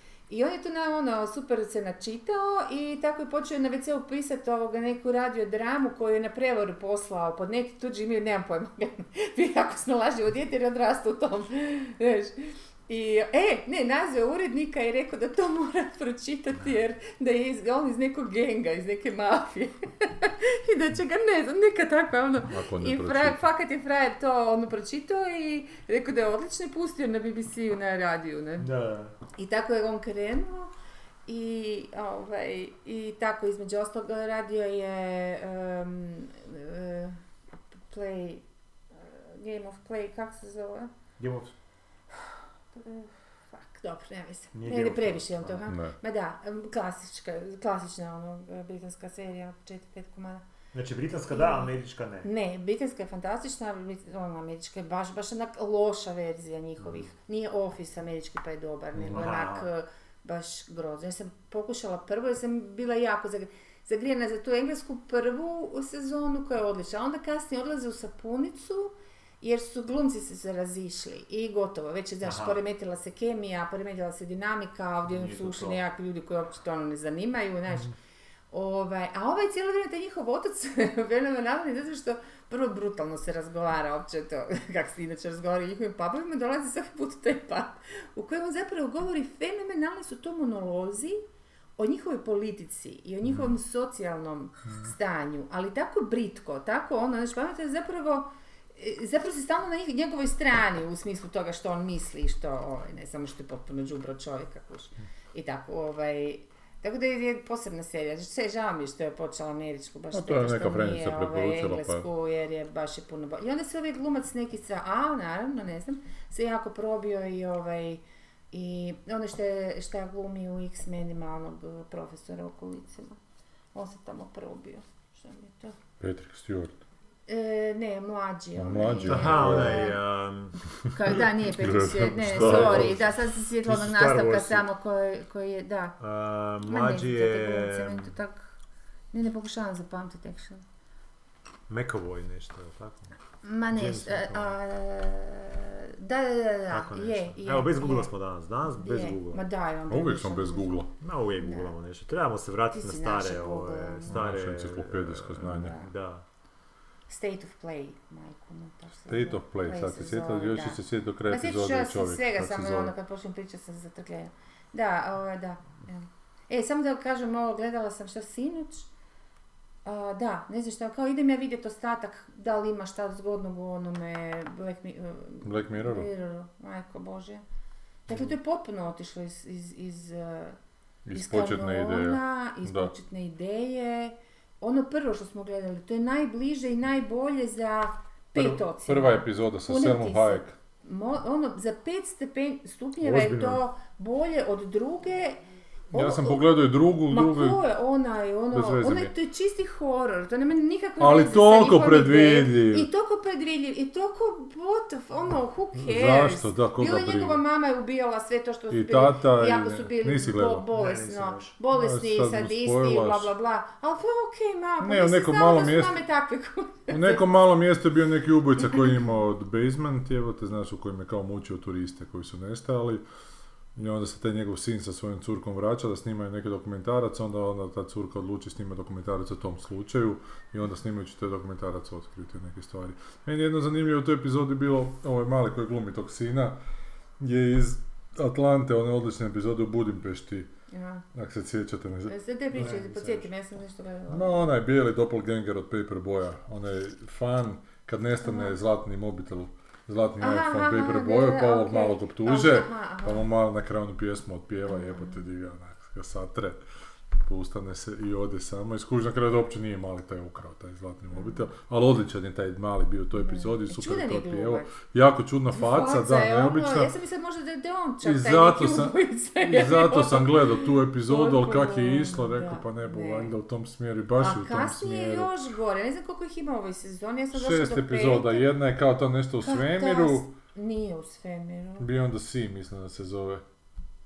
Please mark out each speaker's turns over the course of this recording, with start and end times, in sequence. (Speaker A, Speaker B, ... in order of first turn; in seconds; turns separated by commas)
Speaker A: 0.3-28.7, Speaker B: 22.5-23.4, Speaker C: 28.6-29.1, Speaker A: 29.4-30.7, Speaker A: 31.3-37.2, Speaker A: 37.9-40.9, Speaker C: 41.2-41.5, Speaker A: 42.1-50.4, Speaker C: 44.5-45.6, Speaker B: 45.7-45.9, Speaker C: 50.7-52.3, Speaker A: 51.3-51.7, Speaker A: 52.2-77.9, Speaker C: 59.0-59.7, Speaker C: 72.2-72.6, Speaker C: 75.1-75.8, Speaker A: 78.5-91.2, Speaker A: 91.8-123.2, Speaker B: 110.1-112.1, Speaker A: 123.7-125.8, Speaker B: 126.0-126.8, Speaker A: 127.3-130.0, Speaker B: 128.6-129.9, Speaker C: 129.1-130.6, Speaker A: 130.9-136.0, Speaker B: 131.1-133.1, Speaker C: 132.3-134.7, Speaker C: 136.0-138.1, Speaker A: 136.7-138.5, Speaker A: 139.1-140.6, Speaker C: 141.7-143.1, Speaker A: 143.4-148.1, Speaker C: 143.7-144.6, Speaker C: 146.7-149.4, Speaker A: 148.7-150.9, Speaker B: 149.9-150.9, Speaker C: 151.0-156.2, Speaker A: 151.4-151.7, Speaker A: 152.7-154.2, Speaker B: 154.1-155.8, Speaker A: 155.5-155.9, Speaker A: 157.1-168.9, Speaker B: 159.1-162.9, Speaker A: 169.8-177.4, Speaker B: 175.4-176.1, Speaker A: 178.1-180.6, Speaker B: 181.1-182.9, Speaker A: 181.1-195.4, Speaker B: 188.3-190.6, Speaker C: 193.0-193.6, Speaker A: 195.9-196.4, Speaker B: 195.9-197.6, Speaker A: 197.1-217.2, Speaker B: 198.5-199.1, Speaker B: 201.0-202.9, Speaker B: 205.8-207.4, Speaker B: 208.7-210.7, Speaker C: 210.7-211.6, Speaker B: 211.7-213.3, Speaker B: 214.8-216.0, Speaker B: 216.9-223.0, Speaker B: 223.8-236.6, Speaker B: 237.2-240.5, Speaker A: 240.7-241.1, Speaker B: 241.1-242.7, Speaker A: 242.1-244.5, Speaker C: 242.5-243.3, Speaker B: 244.1-256.6, Speaker A: 248.2-248.6, Speaker A: 250.2-253.3, Speaker A: 254.7-255.2, Speaker B: 257.2-266.9, Speaker A: 261.1-261.4, Speaker A: 263.1-264.7, Speaker A: 265.5-273.3, Speaker B: 268.0-275.3, Speaker A: 274.2-278.5, Speaker B: 277.3-280.3, Speaker A: 279.4-281.9, Speaker B: 281.8-283.4